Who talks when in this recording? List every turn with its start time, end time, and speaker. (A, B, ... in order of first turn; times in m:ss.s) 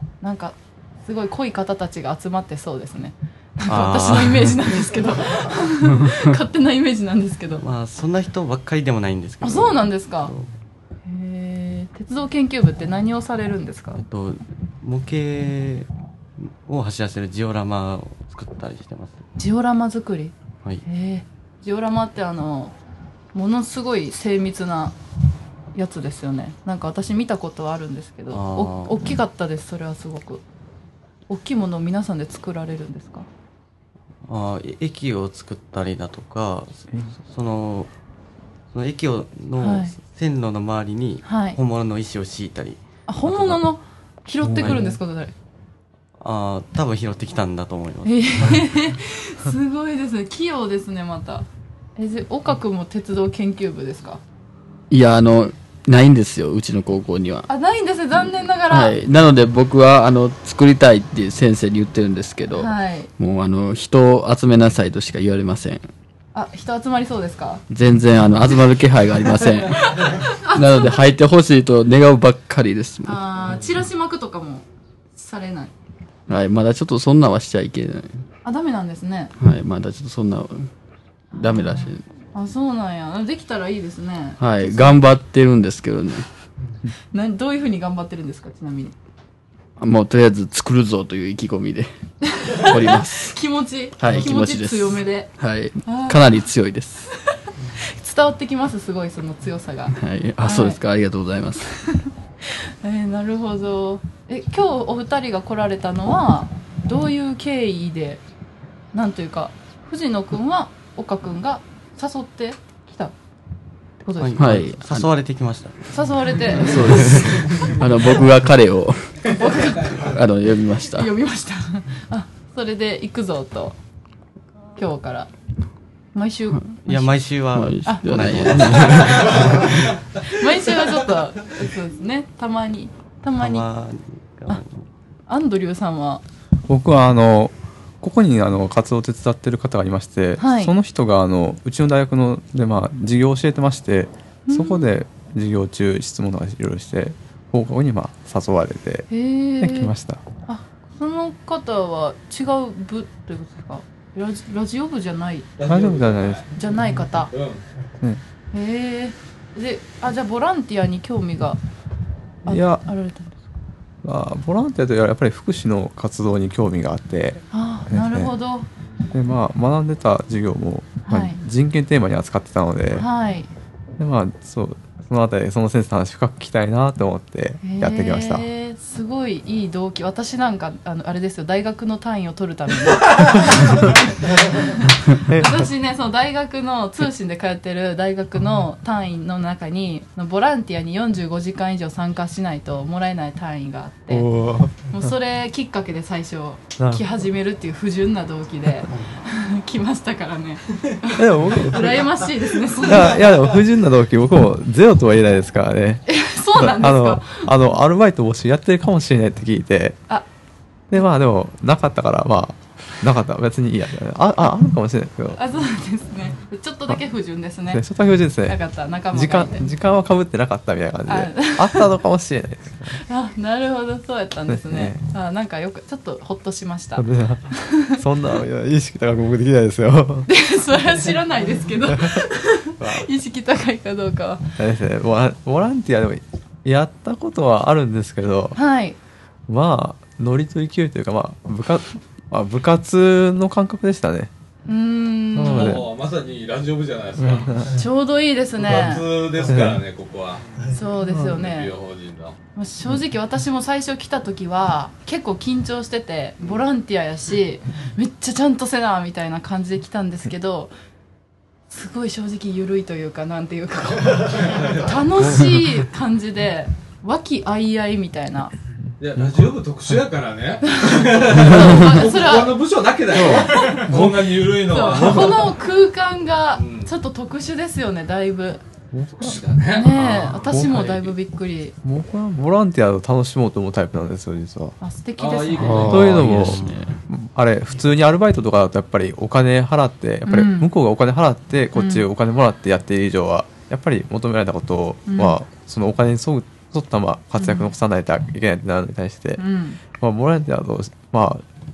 0:00.2-0:07.6 A
0:03.6-0:04.7 B
0:05.9-0:06.3 C
0:07.6-0:10.5 B
0:09.4-0:10.3 A
0:11.0-0:14.0 A
0:14.0-0:19.2 B
0:19.4-0:22.7 A
0:23.3-0:25.0 A
0:25.7-0:30.4 A
0:28.3-0:29.0 B
0:31.3-0:33.3 A
0:34.3-0:37.9 B
0:38.7-0:42.8 B
0:39.6-0:39.9 A
0:41.2-0:41.6 A
0:43.1-0:45.3 A
0:44.5-0:44.8 D
0:44.6-0:44.9 B
0:46.2-0:48.6 B
0:48.0-0:54.2 A
0:54.9-0:57.5 C
0:57.5-0:59.0 A
0:58.7-1:05.8 C
1:02.5-1:03.1 A
1:06.3-1:07.6 A
1:07.7-1:13.2 C
1:09.6-1:11.0 A
1:13.0-1:15.7 A
1:16.3-1:18.1 C
1:18.4-1:19.3 A
1:19.4-1:20.7 C
1:21.4-1:22.0 C
1:21.4-1:25.0 A
1:24.4-1:26.2 C
1:27.1-1:28.9 A
1:29.8-1:31.9 C
1:32.2-1:35.3 A
1:32.5-1:33.4 C
1:34.0-1:37.1 C
1:35.8-1:36.5 A
1:37.3-1:40.8 A
1:39.9-1:41.9 C
1:42.0-1:48.2 A
1:48.9-1:53.1 A
1:54.0-1:54.6 A
1:54.2-1:55.8 B
1:54.4-1:55.1 C
1:55.9-1:57.7 A
1:56.5-1:59.4 C
1:56.8-1:57.4 B
1:59.3-2:00.2 A
1:59.9-2:01.1 C
2:00.9-2:03.8 A
2:04.8-2:05.3 A
2:06.1-2:07.1 A
2:06.8-2:09.8 B
2:07.5-2:09.9 C
2:07.8-2:09.5 A
2:10.2-2:13.7 A
2:13.4-2:14.8 B
2:15.3-2:16.2 A
2:16.7-2:29.1 D
2:20.4-2:20.7 A
2:24.5-2:24.9 A
2:29.1-2:29.9 A
2:29.6-2:30.2 D
2:30.4-2:35.5 A
2:35.6-2:36.5 E
2:35.7-2:36.4 D
2:36.5-2:37.3 A
2:37.3-2:37.6 E
2:38.5-2:41.6 A
2:42.4-2:43.5 A
2:42.4-2:42.8 D
2:44.0-2:48.3 D
2:47.5-2:48.7 A
2:49.1-2:53.0 D
2:51.1-2:51.4 A
2:53.0-2:53.5 A
2:54.0-2:58.4 D
2:57.6-3:14.3 A
3:05.2-3:05.6 D
3:14.1-3:14.8 D
3:14.8-3:23.6 A
3:16.8-3:17.0 D
3:21.1-3:22.3 D
3:22.8-3:26.0 D
3:26.1-3:27.5 A
3:26.5-3:30.0 D
3:30.9-3:35.4 D
3:35.3-3:37.8 A
3:37.7-3:38.6 D
3:38.4-3:39.7 A
3:39.1-3:43.0 D
3:41.1-3:41.9 A
3:42.9-3:48.0 A
3:44.5-3:45.0 D
3:47.0-3:50.3 D
3:50.3-3:54.5 A
3:51.9-3:52.2 D
3:52.8-3:53.1 D
3:54.6-3:58.6 D
3:58.5-3:59.0 A
3:59.5-4:04.3 D
4:04.6-4:05.8 A
4:05.3-4:05.9 D
4:05.4-4:07.7 E
4:07.2-4:07.7 D
4:07.6-4:09.1 A
4:08.6-4:10.4 E
4:09.5-4:09.8 D
4:10.7-4:11.7 A
4:11.0-4:12.4 E
4:12.5-4:20.7 A
4:21.7-4:28.5 A
4:24.4-4:24.9 E
4:29.0-4:35.6 E
4:30.7-4:32.6 A
4:33.2-4:33.5 C
4:33.2-4:34.0 A
4:34.5-4:38.6 A
4:36.6-4:36.9 E
4:38.9-4:39.4 D
4:39.1-4:40.0 E
4:39.7-4:41.8 A
4:39.9-4:41.1 D
4:41.8-4:44.7 D
4:44.8-4:46.0 A
4:45.2-4:46.2 E
4:45.6-4:47.0 C
4:45.8-4:59.4 D
4:46.3-4:46.8 B
4:50.2-4:50.7 A
4:51.7-4:52.0 A
4:55.1-4:55.4 A
4:57.4-4:57.7 A
4:59.4-4:59.8 A
4:59.9-5:01.4 D